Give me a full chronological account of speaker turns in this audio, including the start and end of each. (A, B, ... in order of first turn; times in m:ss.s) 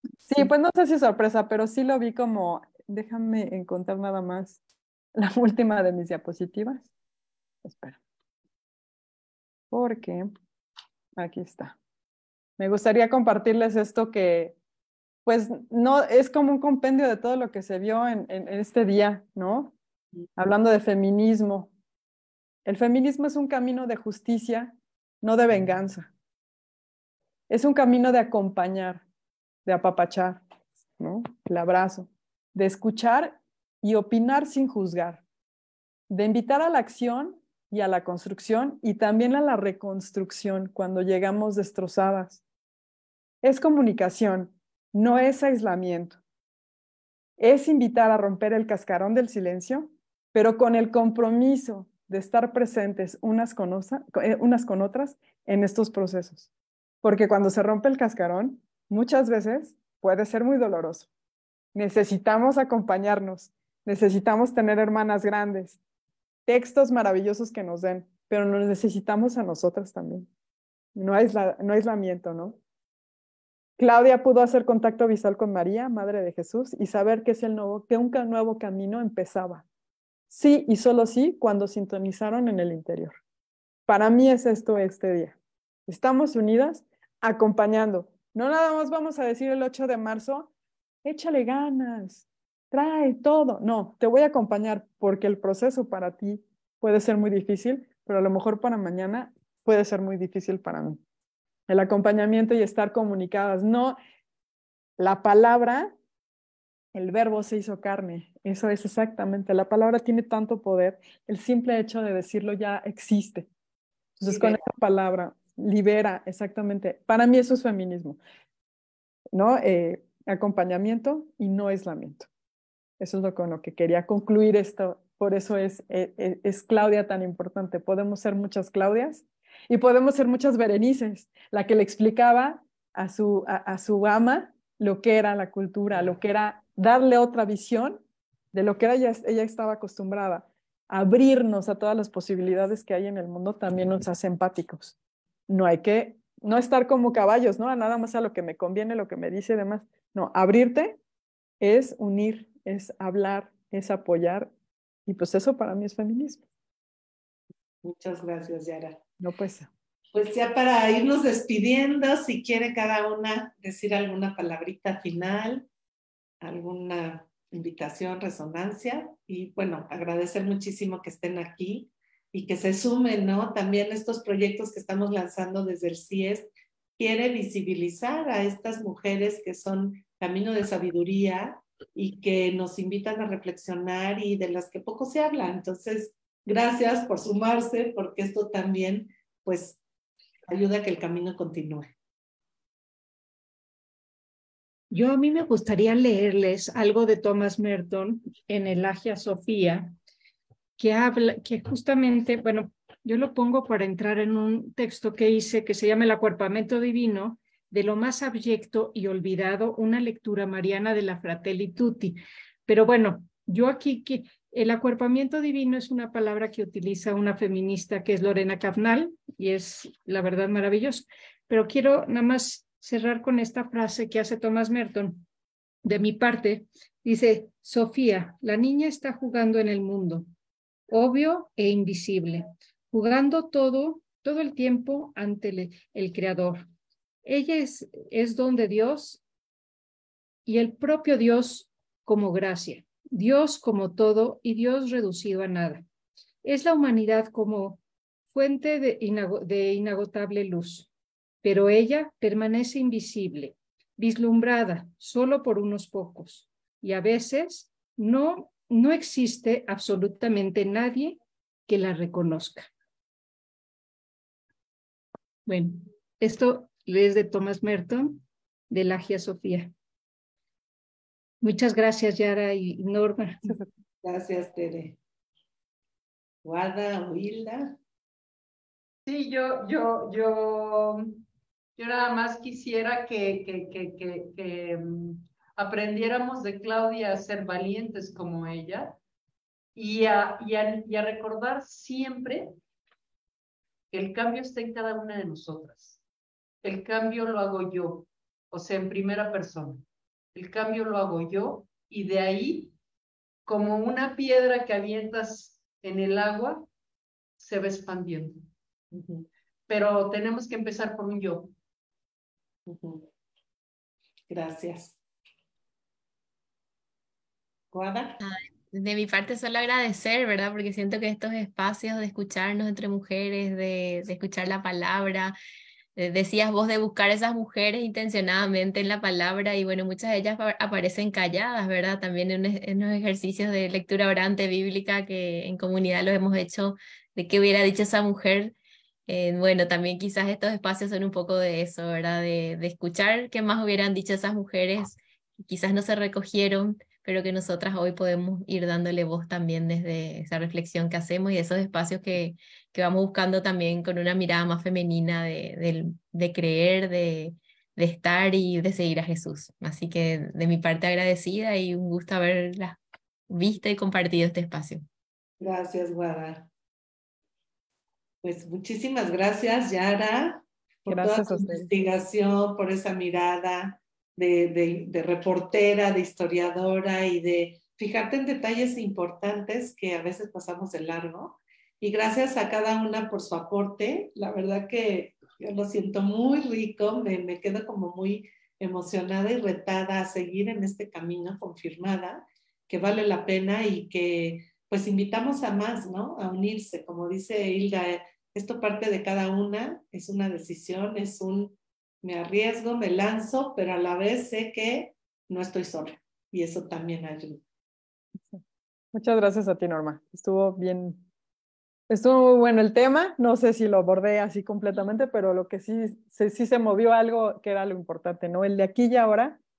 0:00.2-0:04.6 A
0:05.1-0:06.9 A
0:07.6-0:08.0 A
0:09.7-0:10.3 A
0:11.2-0:11.8 A
0:12.6-0:14.6 A
0:15.2-0:19.8 A
0:20.4-0:21.7 A
0:22.6-0:26.1 A
0:27.5-0:29.0 A
0:29.6-0:30.4 A
0:31.0-0:35.2 A
0:36.1-0:42.4 A
0:43.4-0:46.2 A
0:47.4-0:56.5 A
0:57.0-1:01.1 A
1:01.7-1:05.8 A
1:06.4-1:10.3 A
1:11.0-1:12.6 A
1:13.8-1:19.6 A
1:20.3-1:23.2 A
1:23.9-1:30.5 A
1:31.0-1:41.0 A
1:41.7-1:44.0 A
1:45.0-1:45.9 A
1:46.9-1:53.5 A
1:54.2-1:58.2 A
1:54.3-1:54.6 B
1:59.3-2:02.3 A
2:03.0-2:18.0 A
2:18.5-2:24.9 A
2:25.5-2:31.0 A
2:31.6-2:34.5 A
2:35.1-2:36.4 A
2:37.8-2:39.0 B
2:39.2-2:39.7 A
2:40.1-2:45.7 B
2:46.4-3:09.8 B
3:10.5-3:11.9 B
3:14.9-3:20.0 C
3:20.8-3:45.2 C
3:45.8-3:50.3 C
3:50.9-3:56.6 C
3:57.2-3:59.2 C
4:00.4-4:05.8 C
4:06.4-4:10.9 C
4:11.4-4:22.7 C
4:25.4-4:29.7 C
4:31.4-4:33.6 C
4:34.0-4:35.0 B
4:36.4-4:37.8 B
4:39.0-4:41.2 D
4:41.8-4:49.0 D
4:49.8-4:52.6 D
4:53.9-4:56.0 D
4:56.6-5:02.7 D
5:03.4-5:06.7 D
5:07.4-5:08.5 D
5:08.9-5:09.3 B
5:09.7-5:11.5 D
5:12.6-5:13.0 B
5:14.3-5:15.0 B
5:17.7-5:18.2 B
5:18.2-5:25.3 E
5:26.0-5:38.6 E
5:39.1-6:04.8 E
6:05.4-6:06.5 B
6:08.2-6:47.4 B
6:10.9-6:11.7 A
6:48.9-6:51.0 A
6:51.9-6:59.4 A